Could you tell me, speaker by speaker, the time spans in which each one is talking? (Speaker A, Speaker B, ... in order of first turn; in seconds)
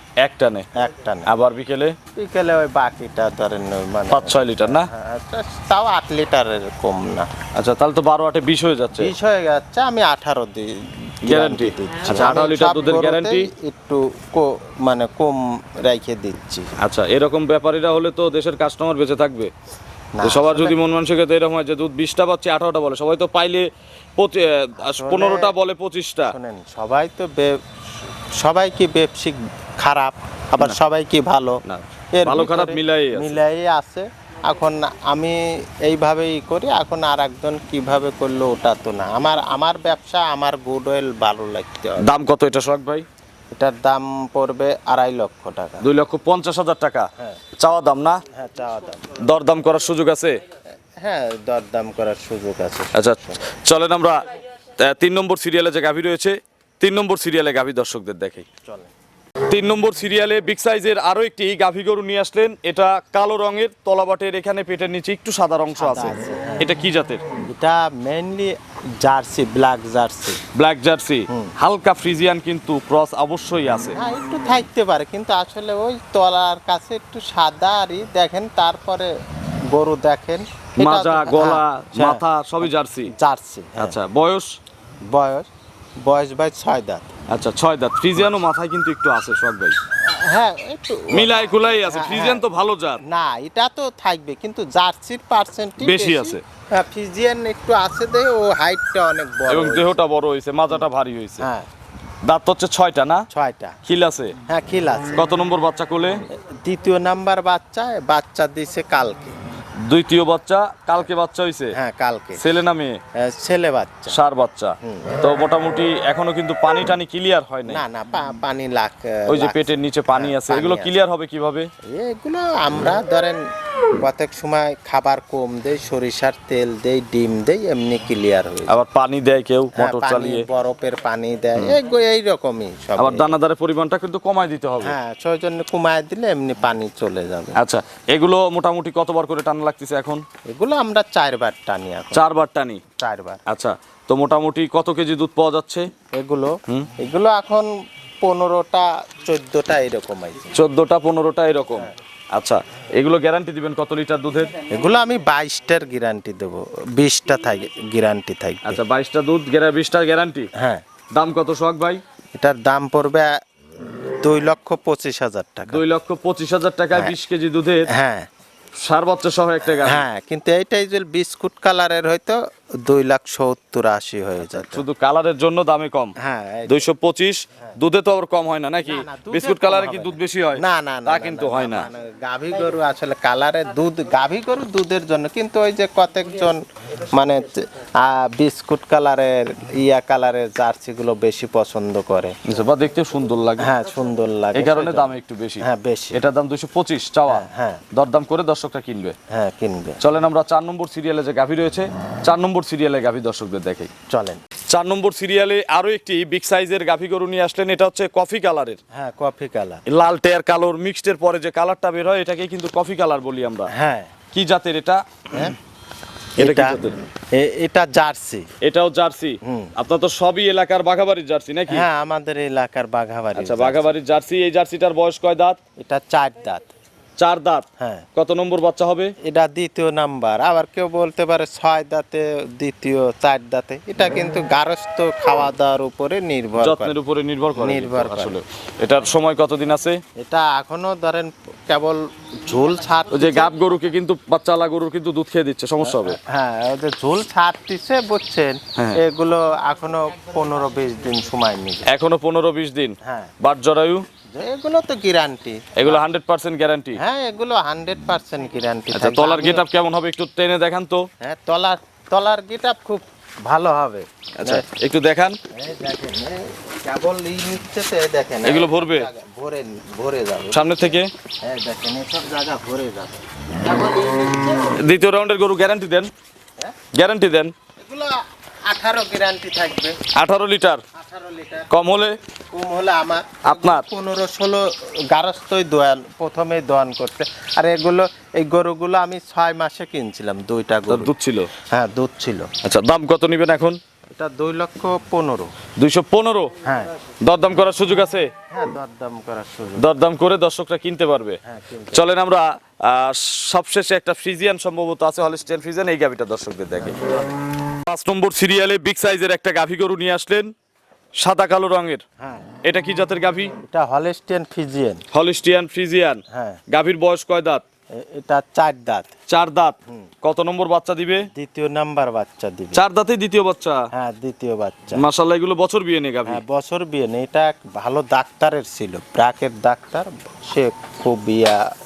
Speaker A: 0.2-0.7, 1.2-1.9, 4.1-4.9, 7.5-9.1, 11.2-13.5, 16.8-19.5, 20.2-26.3, 31.6-33.4, 42.0-43.0, 45.8-48.2, 49.2-50.4, 52.9-54.2, 54.8-58.5, 59.5-67.2, 70.5-74.0, 80.8-83.1, 83.8-84.5, 87.3-89.7, 91.1-93.0, 95.8-96.4, 99.5-101.5, 102.2-103.3, 103.8-104.3, 105.1-106.2, 109.9-111.7, 112.4-113.0, 114.1-117.8, 119.3-121.7, 128.7-130.4, 133.0-135.0, 137.6-140.2, 142.1-142.8, 143.5-145.9, 150.5-154.5, 158.6-160.5, 161.1-162.0, 165.7-167.9, 168.8-170.0, 174.4-176.1, 176.7-181.9, 192.4-193.7, 194.6-199.1, 200.0-203.9, 204.7-208.8, 209.9-213.7, 214.3-215.2, 216.4-217.0, 218.6-221.9, 223.3-225.6, 227.2-227.6, 228.2-229.1, 236.6-240.0, 243.1-246.2, 251.9-254.0, 255.8-257.0, 258.9-261.1, 264.4-265.4, 268.4-269.1, 270.5-271.1, 274.8-276.1, 276.9-277.5, 280.1-280.8, 281.7-282.1, 283.4-283.8, 290.9-291.5, 292.6-293.8, 295.8-296.5, 297.2-298.3, 299.8-301.4, 301.9-307.1, 307.8-310.5, 311.2-312.0, 312.6-313.5, 315.1-317.6, 319.3-321.3, 322.7-323.8, 324.9-326.4
Speaker B: 0.7-1.3, 2.1-7.3, 9.0-16.7, 20.1-20.8, 24.8-25.5, 26.3-27.6, 28.4-31.6, 32.1-42.1, 43.5-45.9, 48.3-49.1, 51.0-53.4, 58.6-58.9, 65.7-66.7, 67.4-70.4, 71.3-71.5, 73.9-79.1, 79.7-84.0, 85.1-85.5, 86.0-87.1, 90.0-92.5, 93.0-100.0, 101.4-101.7, 103.3-103.8, 104.5-105.2, 106.3-109.4, 111.7-112.5, 113.1-114.2, 114.8-115.1, 117.7-121.0, 121.9-123.4, 124.0-128.7, 129.8-133.4, 134.8-137.6, 140.5-142.2, 143.0-143.4, 146.1-147.7, 148.2-150.6, 154.7-158.8, 160.5-160.8, 162.3-163.3, 164.2-165.8, 167.9-168.3, 169.6-174.8, 176.2-176.8, 178.8-192.3, 193.6-196.2, 197.3-197.8, 199.3-200.0, 204.1-204.4, 208.9-209.8, 213.7-214.1, 216.4-216.8, 217.3-218.5, 219.4-219.7, 221.7-223.9, 225.8-226.7, 227.8-228.1, 229.2-236.9, 237.6-238.4, 240.2-243.5, 245.8-251.9, 253.0-253.3, 254.3-256.0, 257.0-259.6, 261.2-264.6, 265.5-274.9, 277.8-280.0, 280.9-281.8, 282.5-291.1, 291.7-292.5, 294.1-295.5, 296.6-296.9, 298.5-299.9, 301.4-302.1, 312.2-312.5, 313.7-315.0, 316.3-316.6, 318.0-319.1, 321.3-322.8, 323.9-325.0, 326.3-331.6